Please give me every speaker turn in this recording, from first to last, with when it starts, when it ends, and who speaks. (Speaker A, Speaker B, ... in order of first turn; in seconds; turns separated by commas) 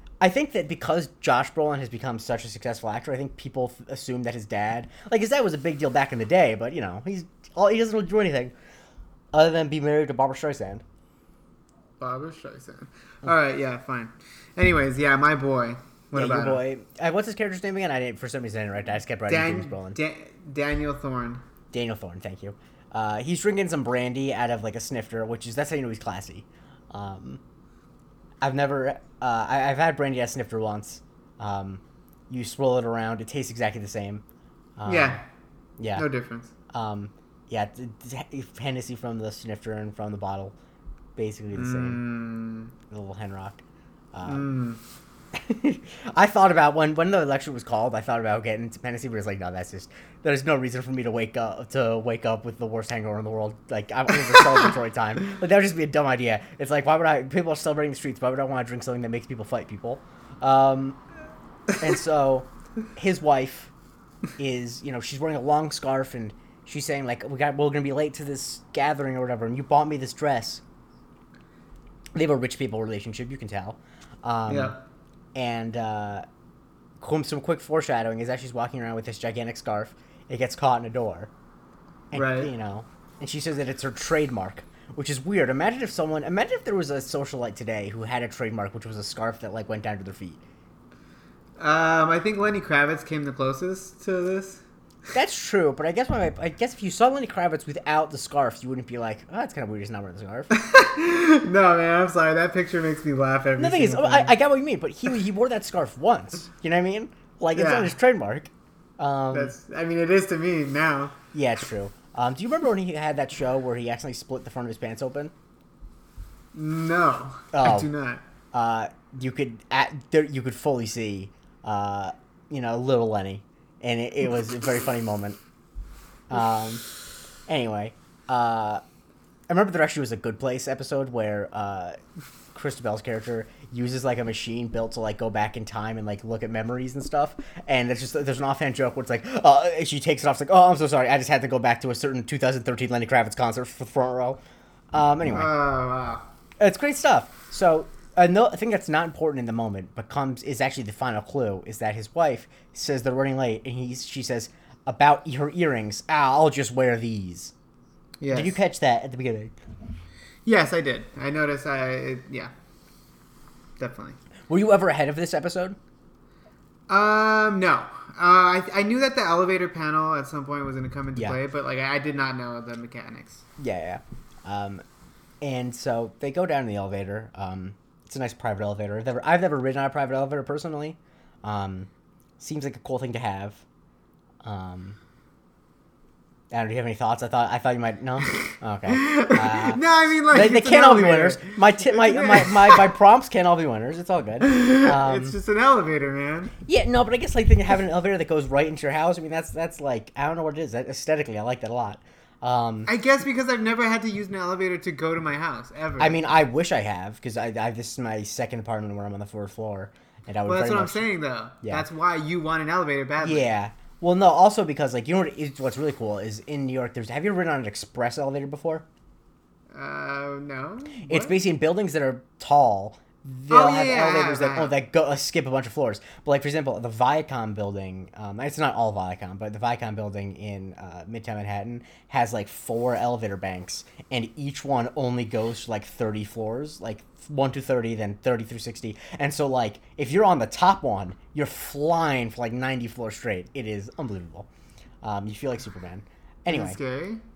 Speaker A: 0.2-8.5, Speaker A: 9.3-10.8, Speaker B: 12.0-16.6, Speaker A: 16.1-20.0, Speaker B: 19.3-21.4, Speaker A: 21.7-27.4, Speaker A: 28.4-34.2, Speaker A: 34.8-35.2, Speaker B: 34.9-35.2, Speaker A: 35.8-36.1, Speaker B: 36.0-36.5, Speaker A: 36.7-40.5, Speaker A: 41.2-42.0, Speaker B: 41.5-42.7, Speaker A: 42.9-43.6, Speaker A: 44.1-44.5, Speaker B: 44.3-44.8, Speaker A: 45.3-61.0, Speaker A: 61.8-63.7, Speaker A: 64.4-70.6, Speaker A: 72.2-74.8, Speaker B: 74.5-74.8, Speaker A: 75.3-76.2, Speaker A: 77.0-81.3, Speaker A: 82.1-90.4, Speaker B: 82.1-82.5, Speaker B: 91.6-94.6, Speaker A: 95.1-100.5, Speaker B: 100.5-104.4, Speaker A: 103.6-109.5, Speaker B: 107.5-107.9, Speaker B: 109.3-111.2, Speaker A: 111.3-115.3, Speaker B: 116.5-118.2, Speaker A: 117.5-117.9, Speaker A: 118.5-125.4, Speaker A: 126.3-126.8, Speaker A: 127.5-128.8, Speaker A: 129.5-132.0, Speaker A: 132.5-144.4, Speaker A: 144.9-145.5, Speaker B: 145.3-146.2, Speaker A: 146.6-157.5, Speaker B: 158.2-158.6, Speaker A: 158.3-159.5, Speaker B: 160.5-162.5, Speaker B: 163.8-164.2, Speaker A: 164.5-165.8, Speaker B: 166.9-173.4, Speaker A: 173.6-174.8, Speaker A: 175.4-181.9, Speaker A: 182.4-183.7, Speaker A: 184.4-185.0, Speaker A: 186.5-195.4, Speaker B: 188.3-192.9, Speaker B: 194.4-196.5, Speaker A: 196.6-202.9, Speaker B: 202.9-206.2, Speaker A: 206.0-211.0, Speaker B: 210.5-213.5, Speaker A: 213.2-218.8, Speaker B: 219.7-221.4, Speaker A: 221.0-244.5, Speaker B: 223.5-224.7, Speaker A: 245.0-246.8, Speaker B: 246.5-247.2